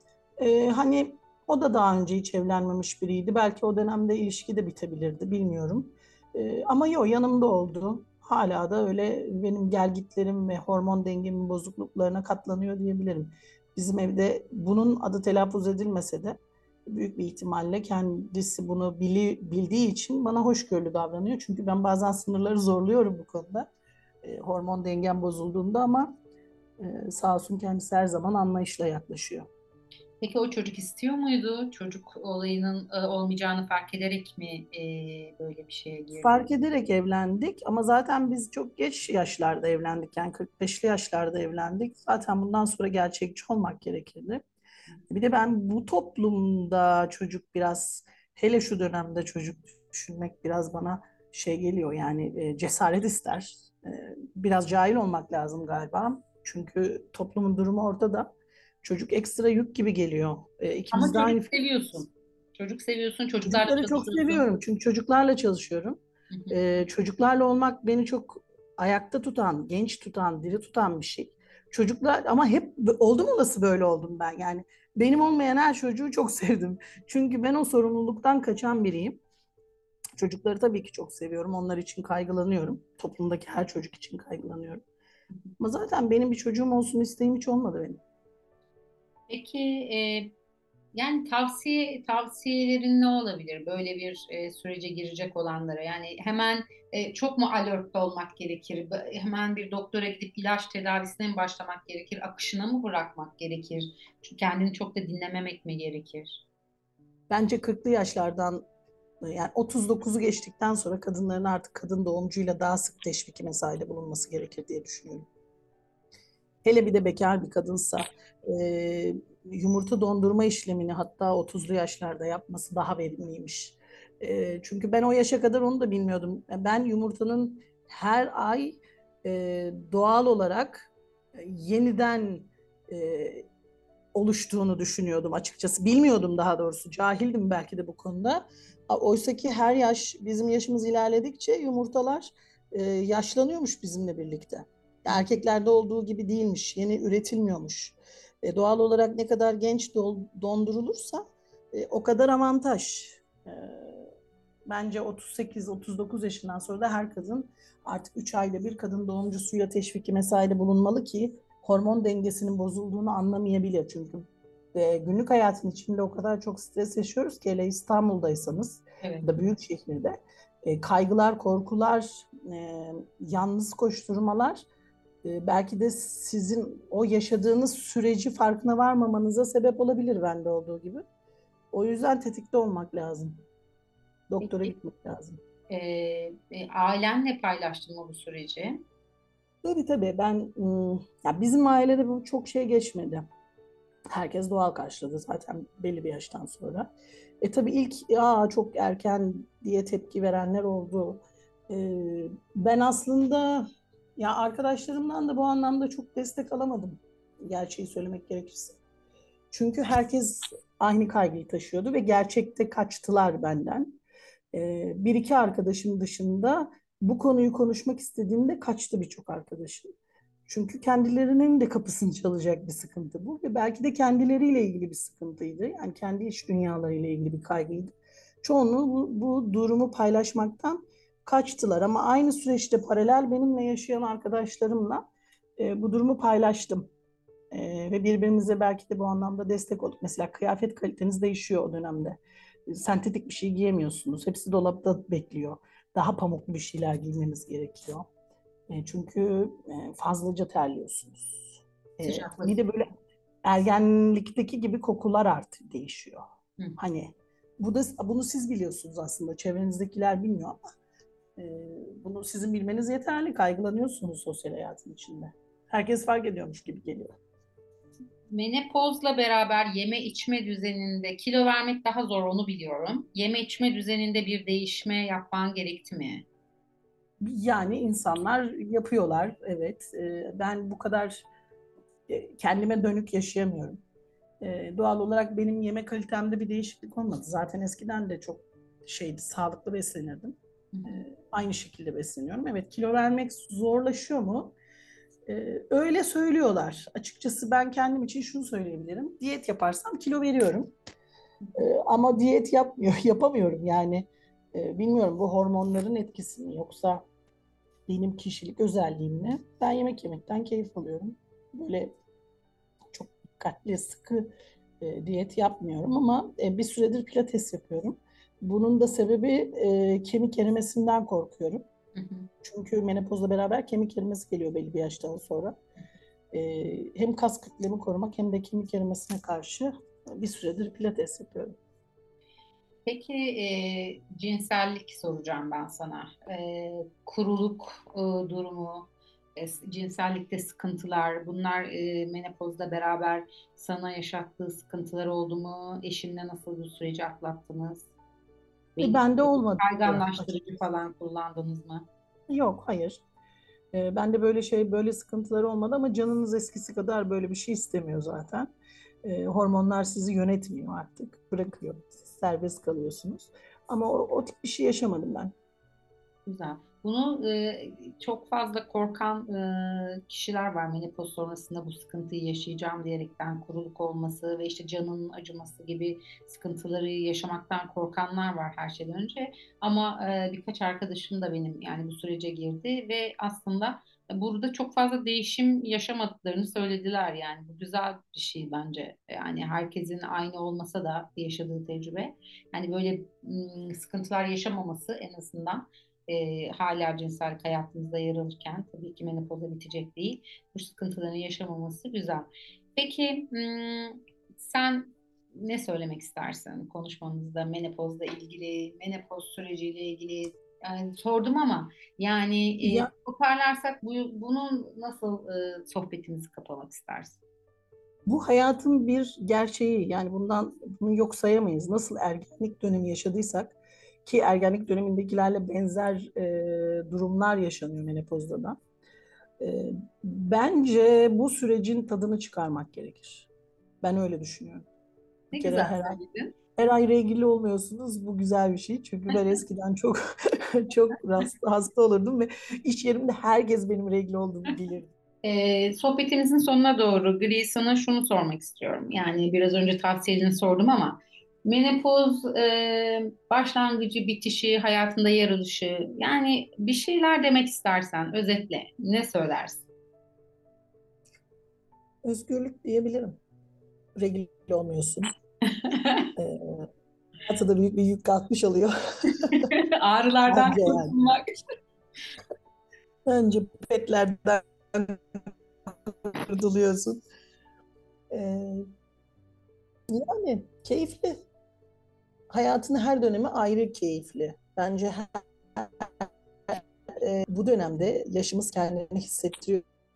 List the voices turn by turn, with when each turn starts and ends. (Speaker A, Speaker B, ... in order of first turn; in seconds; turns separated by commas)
Speaker A: 0.4-23.7, Speaker A: 24.2-26.1, Speaker A: 26.8-29.5, Speaker B: 30.2-36.5, Speaker A: 36.2-44.4, Speaker A: 45.1-58.3, Speaker A: 58.8-61.5, Speaker B: 60.9-64.4, Speaker A: 63.5-66.0, Speaker B: 66.3-66.6, Speaker A: 66.5-79.2, Speaker A: 80.2-84.8, Speaker A: 85.6-88.0, Speaker B: 89.3-90.3, Speaker B: 90.9-106.4, Speaker A: 107.3-108.6, Speaker A: 109.2-115.3, Speaker A: 116.6-133.5, Speaker A: 134.1-154.1, Speaker A: 154.7-174.7, Speaker B: 169.0-169.3, Speaker A: 175.2-181.0, Speaker A: 181.7-183.4, Speaker A: 184.3-185.4, Speaker B: 184.4-184.7, Speaker B: 185.7-188.8, Speaker A: 189.6-193.3, Speaker A: 194.1-203.7, Speaker A: 204.2-208.8, Speaker A: 209.5-214.0, Speaker A: 214.5-219.9, Speaker A: 220.5-235.0, Speaker A: 235.6-236.9, Speaker A: 237.5-248.1, Speaker A: 248.7-252.9, Speaker B: 252.0-252.6, Speaker A: 253.4-256.2, Speaker A: 256.8-260.6, Speaker A: 261.4-267.1, Speaker B: 268.3-276.2, Speaker A: 277.2-281.3, Speaker A: 282.1-283.8, Speaker A: 284.4-294.5, Speaker B: 290.7-291.0, Speaker A: 295.2-300.7, Speaker A: 301.6-307.0, Speaker A: 307.9-311.9, Speaker A: 312.9-321.6, Speaker B: 321.9-322.3, Speaker A: 322.4-325.6, Speaker A: 326.3-331.5, Speaker B: 332.9-347.9, Speaker B: 348.8-351.9, Speaker A: 348.8-350.6, Speaker A: 352.3-353.0, Speaker A: 353.7-358.5, Speaker A: 359.0-365.3, Speaker B: 366.2-417.2, Speaker A: 412.6-412.9, Speaker A: 418.1-428.6, Speaker A: 429.4-433.3, Speaker A: 433.8-434.7, Speaker B: 435.3-436.3, Speaker A: 435.3-436.0, Speaker A: 436.6-444.9, Speaker B: 445.2-459.7, Speaker A: 462.0-463.2, Speaker A: 464.0-465.1, Speaker B: 465.5-466.1, Speaker A: 466.2-466.7, Speaker A: 467.2-469.3, Speaker B: 469.3-471.4, Speaker A: 470.3-471.0, Speaker A: 473.1-477.0, Speaker A: 478.1-478.7, Speaker A: 479.9-481.1, Speaker A: 482.3-489.6